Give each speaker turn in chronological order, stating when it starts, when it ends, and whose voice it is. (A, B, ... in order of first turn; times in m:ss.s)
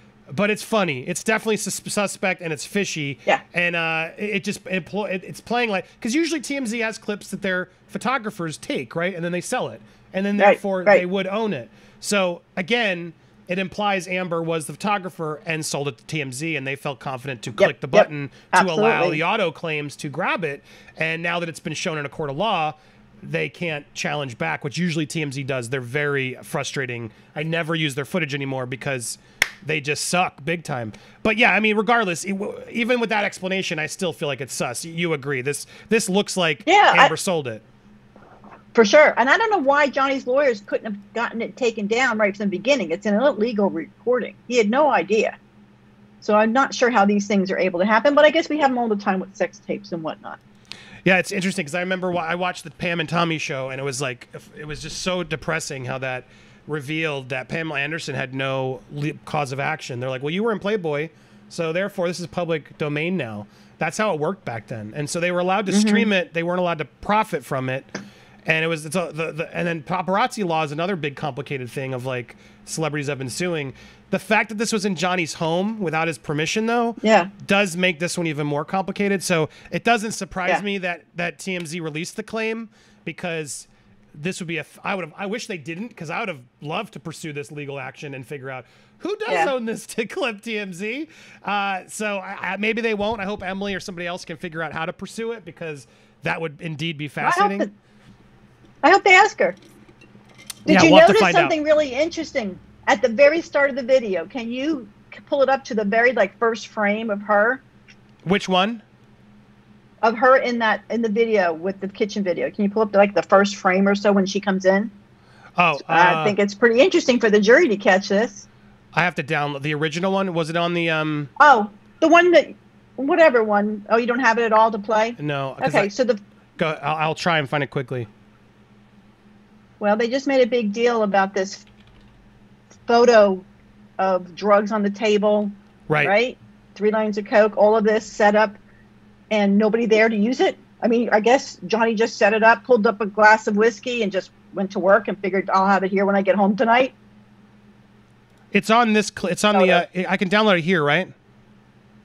0:00.3-0:37.6 A
0:10.4-0:11.0 B
0:17.6-0:19.2 B
0:36.6-0:37.1 B
0:38.7-0:45.4 B
0:46.2-0:50.4 B
0:51.0-1:07.9 A
1:05.7-1:06.1 B
1:08.4-1:37.7 A
1:17.0-1:17.3 B
1:37.2-1:37.7 B
1:38.8-1:39.6 B
1:40.6-1:47.6 B
1:40.7-1:41.5 A
1:48.2-1:48.8 A
1:50.0-1:54.9 B
1:55.6-1:56.4 A
1:55.9-1:58.4 B
1:58.9-2:01.3 A
2:01.4-2:06.2 B
2:05.2-2:05.9 A
2:06.6-2:08.1 A
2:09.8-2:11.6 B
2:12.9-2:13.4 B
2:14.0-2:18.6 B
2:15.9-2:16.1 A
2:19.3-2:26.9 B
2:28.5-2:31.1 A
2:29.5-2:29.8 B